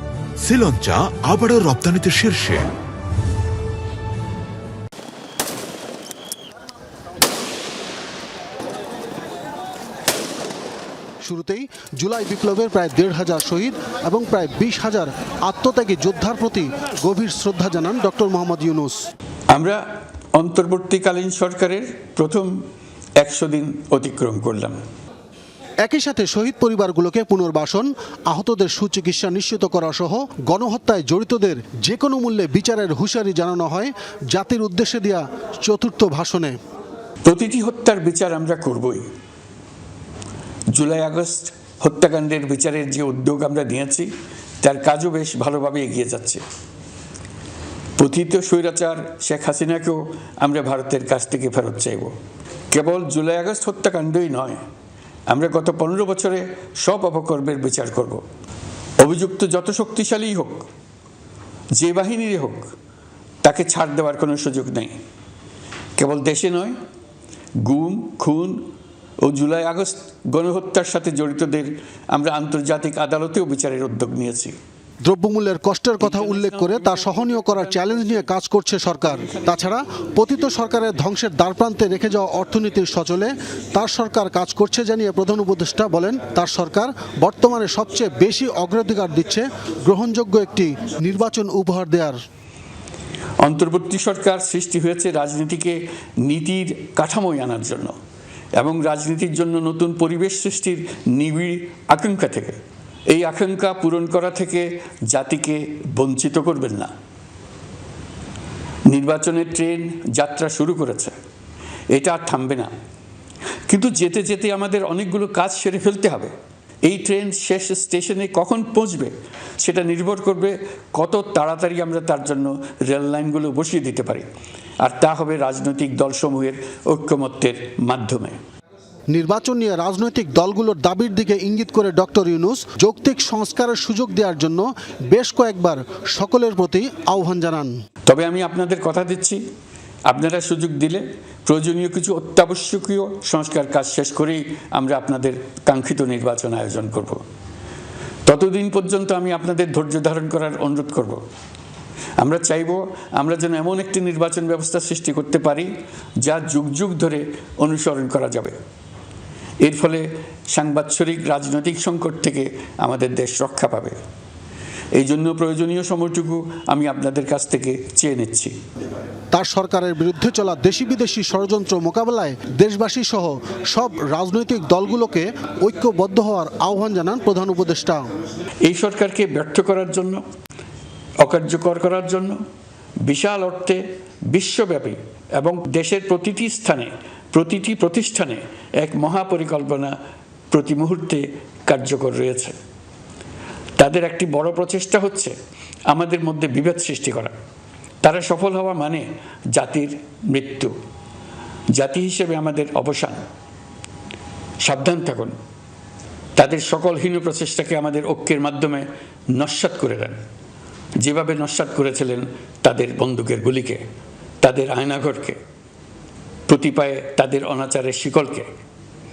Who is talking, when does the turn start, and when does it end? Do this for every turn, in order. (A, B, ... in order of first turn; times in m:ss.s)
0:00.4-0:02.7 A
0:11.2-0:19.0 B
0:19.5-0:19.8 C
0:20.3-0:22.6 C
0:23.2-0:24.8 C
0:25.8-0:36.6 B
0:37.2-0:39.0 C
0:40.7-0:44.1 C
0:44.6-0:46.4 C
0:48.0-0:52.1 C
0:52.7-0:54.6 C
0:55.3-0:58.2 C
0:59.0-1:00.7 C
1:01.8-1:02.7 C
1:03.4-1:05.0 C
1:06.0-1:06.7 C
1:07.6-1:08.6 C
1:09.2-1:14.6 C
1:15.0-1:32.2 B
1:16.0-1:18.3 C
1:33.4-1:37.9 C
1:38.6-1:42.6 C
1:43.1-1:46.9 C
1:48.9-1:51.1 C
1:51.9-1:52.7 C
1:53.7-1:56.3 C
1:56.8-2:04.2 C
2:04.8-2:08.4 C
2:09.1-2:17.7 B
2:18.1-2:19.4 C
2:20.1-2:27.2 C
2:28.2-2:31.2 C
2:32.2-2:38.6 C
2:39.6-2:44.0 C
2:44.9-2:48.6 C
2:49.3-2:58.0 B
2:58.6-3:00.2 C
3:01.2-3:02.4 C
3:03.0-3:09.9 C
3:10.5-3:12.6 C
3:13.8-3:15.3 C
3:15.9-3:17.3 C
3:18.0-3:20.7 C
3:21.7-3:23.2 C
3:24.6-3:25.3 C
3:26.4-3:30.2 C
3:31.0-3:33.8 C
3:34.4-3:35.4 C
3:36.5-3:38.5 C